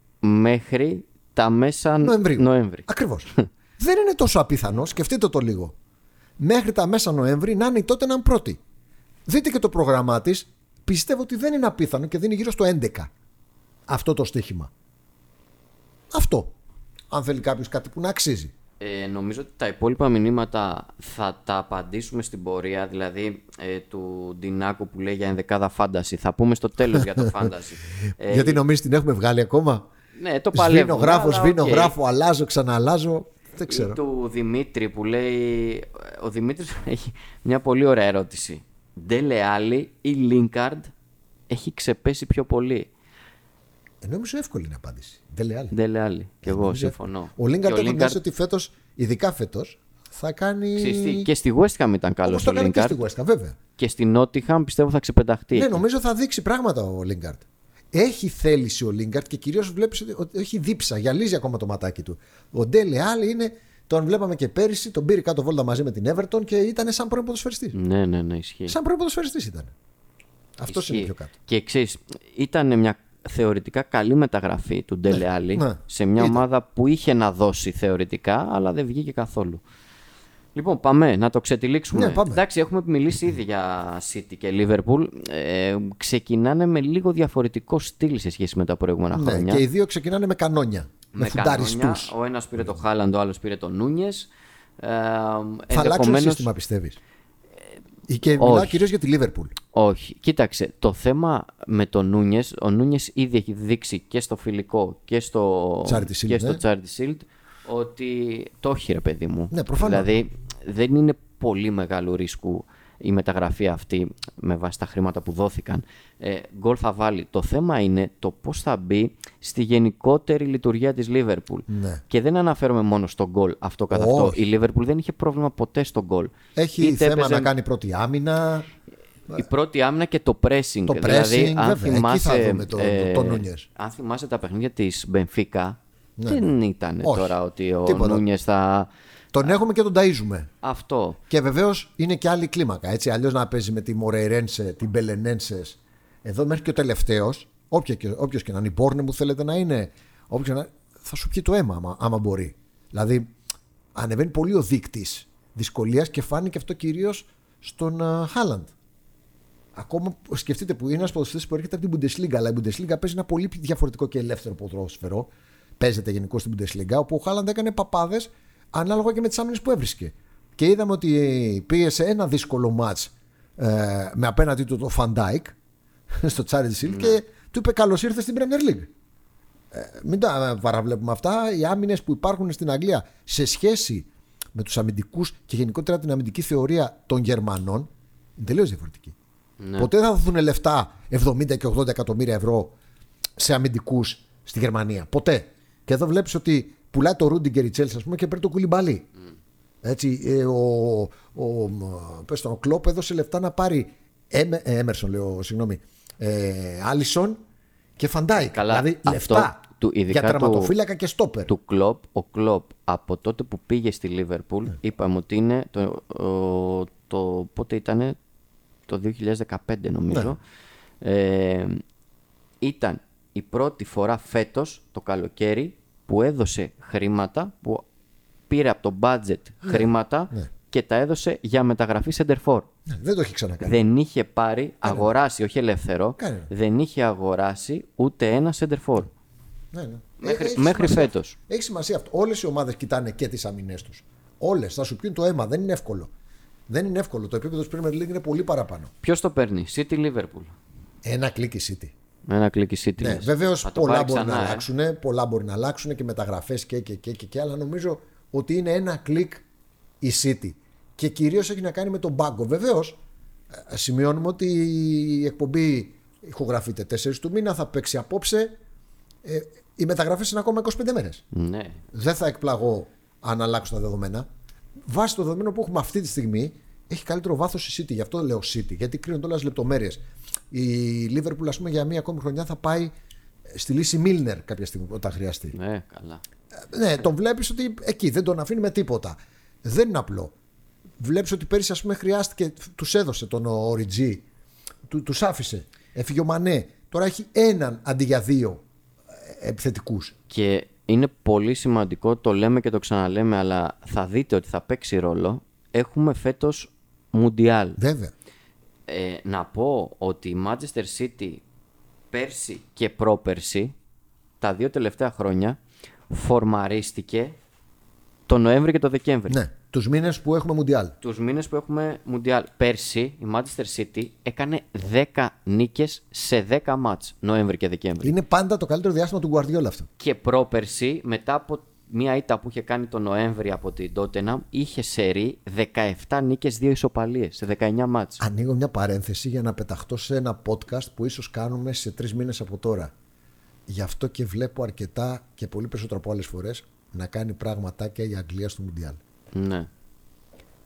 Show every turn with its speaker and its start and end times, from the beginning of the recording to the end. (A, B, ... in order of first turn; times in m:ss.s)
0:00.2-0:03.5 A
0:02.0-0:05.7 B
0:06.4-0:08.6 B
0:09.3-0:13.1 B
0:13.9-0:14.7 B
0:16.1-0:16.5 B
0:17.1-0:18.5 B
0:18.8-0:28.6 A
0:27.0-0:27.3 B
0:28.2-0:29.8 B
0:30.2-0:31.9 A
0:30.5-0:34.0 B
0:33.7-0:40.9 A
0:41.5-0:42.9 A
0:44.0-0:45.7 B
0:45.7-0:48.2 A
0:46.4-0:51.3 B
0:50.8-0:53.0 A
0:52.2-0:53.6 B
0:53.8-0:55.8 A
0:55.5-1:07.7 B
1:07.7-1:08.8 A
1:08.7-1:09.7 B
1:10.6-1:11.3 B
1:10.7-1:19.6 A
1:15.1-1:16.4 B
1:20.5-1:29.6 A
1:21.9-1:22.4 B
1:29.1-1:32.1 B
1:31.1-1:36.5 A
1:35.7-1:37.0 B
1:38.1-1:39.5 B
1:38.3-1:38.8 A
1:39.7-2:07.5 A
1:45.8-1:46.6 B
1:49.5-1:50.1 B
2:01.7-2:02.0 B
2:03.9-2:04.4 B
2:06.6-2:08.7 B
2:09.3-2:18.9 A
2:10.9-2:13.6 B
2:16.2-2:16.5 B
2:17.0-2:18.2 B
2:19.3-2:20.5 B
2:20.6-2:21.2 A
2:21.3-2:33.3 B
2:33.9-2:38.7 B
2:39.7-2:55.5 B
2:56.1-2:58.9 B
2:56.8-2:57.2 A
2:59.7-3:09.2 B
3:09.6-3:09.9 A
3:09.8-3:12.7 B
3:13.4-3:19.1 B
3:19.8-3:27.4 B
3:28.0-3:31.5 B
3:28.4-3:30.7 A
3:31.5-3:38.2 A
3:38.9-3:40.4 A
3:41.0-3:41.8 A
3:42.6-3:47.8 A
3:48.5-3:52.7 A
3:49.6-3:50.5 B
3:52.9-3:53.8 B
3:53.6-3:59.1 A
3:54.8-3:55.1 B
3:56.2-3:56.5 B
3:59.7-4:06.1 B
4:00.2-4:01.4 A
4:06.7-4:08.9 B
4:09.0-4:10.5 A
4:11.0-4:11.9 B
4:12.3-4:14.6 A
4:13.0-4:19.4 B
4:20.0-4:23.0 B
4:23.6-4:28.5 B
4:29.2-4:31.2 B
4:31.3-4:31.8 A
4:31.9-4:34.3 B
4:34.9-4:42.9 B
4:43.5-4:45.5 B
4:45.5-4:46.2 A
4:46.6-4:50.3 B
4:51.0-4:54.2 B
4:54.9-4:58.6 B
4:59.1-5:00.1 B
5:00.3-5:07.8 A
5:07.8-5:08.1 B
5:08.9-5:11.4 A
5:12.1-5:13.7 A
5:14.4-5:15.6 A
5:16.1-5:17.3 A
5:18.3-5:19.4 A
5:19.3-5:20.9 B
5:21.0-5:28.1 A
5:28.0-5:29.9 B
5:30.0-5:38.2 A
5:38.2-5:42.9 B
5:43.7-5:49.0 B
5:49.3-5:49.7 A